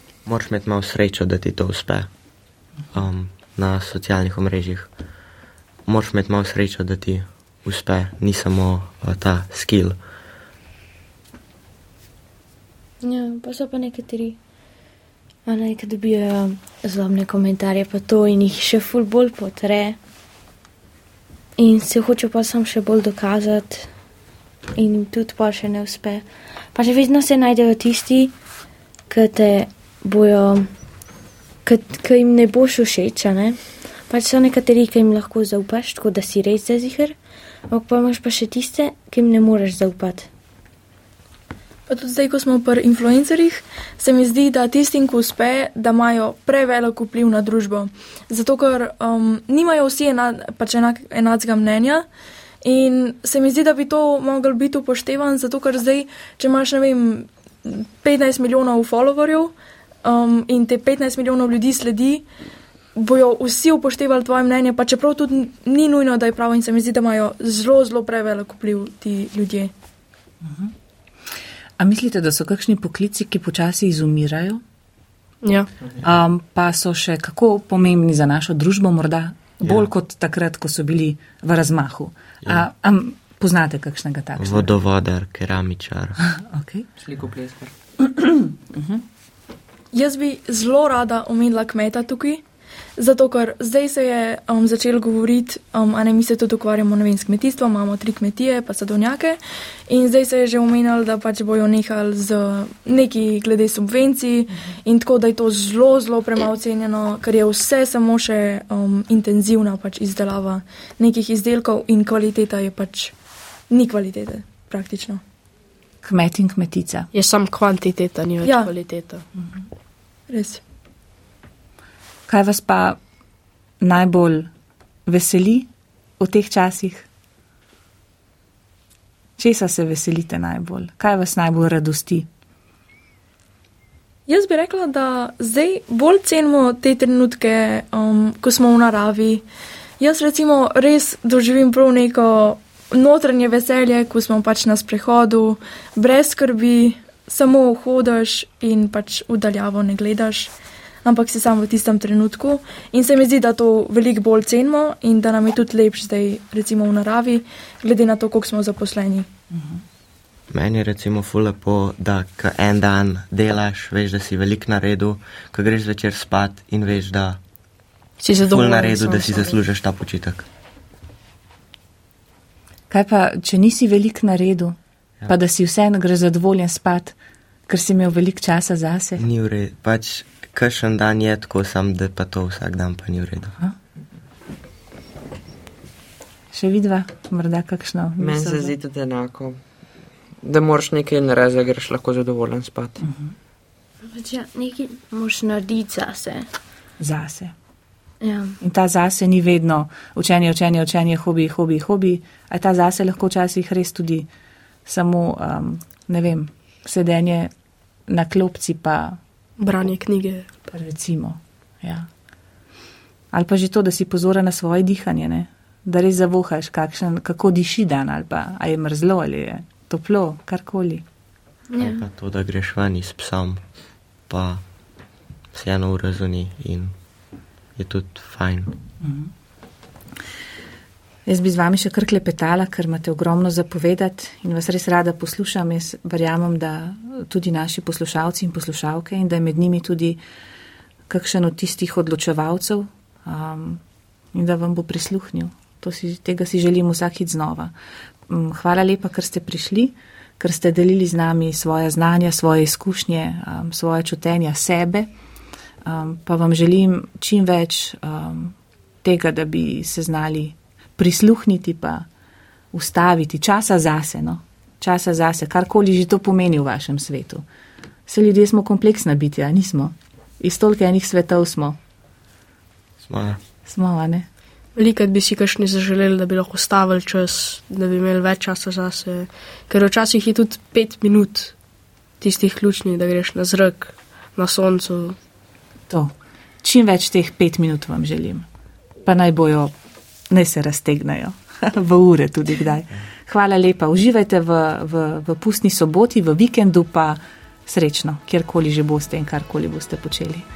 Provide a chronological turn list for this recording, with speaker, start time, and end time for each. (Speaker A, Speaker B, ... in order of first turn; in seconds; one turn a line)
Speaker A: 0.3-2.1
Speaker A: 2.9-4.9
Speaker A: 5.9-10.0
Speaker B: 13.0-14.4
Speaker B: 15.5-20.0
Speaker B: 21.6-23.9
Speaker B: 24.8-28.4
Speaker B: 29.1-30.7
Speaker B: 31.7-37.2
Speaker B: 37.7-40.3
Speaker C: 41.9-52.0
Speaker C: 52.6-59.5
Speaker C: 60.0-62.2
Speaker C: 63.0-69.7
Speaker D: 70.4-70.7
Speaker D: 71.8-74.6
Speaker E: 75.4-75.7
Speaker D: 76.0-84.7
Speaker A: 84.4-86.2
Speaker D: 86.2-86.9
Speaker F: 87.0-87.7
Speaker D: 88.0-89.0
Speaker C: 89.9-92.4
Speaker C: 93.0-99.4
Speaker C: 99.9-113.1
Speaker C: 113.7-115.2
Speaker D: 116.0-117.1
Speaker E: 117.1-119.2
Speaker C: 118.5-118.7
Speaker C: 120.3-120.6
Speaker D: 122.3-123.0
Speaker D: 123.8-124.5
Speaker D: 125.1-127.1
Speaker D: 129.4-132.3
Speaker C: 134.3-139.4
Speaker C: 140.0-150.5
Speaker C: 151.1-159.3
Speaker D: 159.5-159.8
Speaker A: 160.5-167.4
Speaker E: 168.2-169.6
Speaker A: 168.4-170.5
Speaker D: 172.9-174.8
Speaker D: 175.3-177.2
Speaker D: 177.7-179.2
Speaker A: 179.2-183.6
Speaker D: 186.5-188.7
Speaker F: 188.2-189.6
Speaker F: 190.4-193.0
Speaker D: 193.0-193.3
Speaker B: 194.1-196.5
Speaker D: 197.0-197.5
Speaker B: 198.2-198.6
Speaker D: 198.6-204.3
Speaker D: 204.9-207.5
Speaker D: 208.1-209.2
Speaker E: 209.6-210.5
Speaker D: 210.7-212.1
Speaker D: 213.3-221.0
Speaker B: 221.7-222.0
Speaker A: 221.8-223.7
Speaker A: 224.3-224.6
Speaker A: 225.5-227.0
Speaker A: 227.8-228.8
Speaker D: 229.0-229.3
Speaker D: 231.3-240.2
Speaker D: 241.1-243.8
Speaker D: 244.3-247.7
Speaker D: 248.3-255.1
Speaker D: 255.8-262.1
Speaker D: 262.7-267.4
Speaker D: 268.1-271.8
Speaker A: 273.0-273.4
Speaker D: 273.7-274.3
Speaker E: 274.8-281.6
Speaker E: 282.2-285.2
Speaker D: 285.9-288.5
Speaker D: 289.1-289.7
Speaker D: 290.3-300.5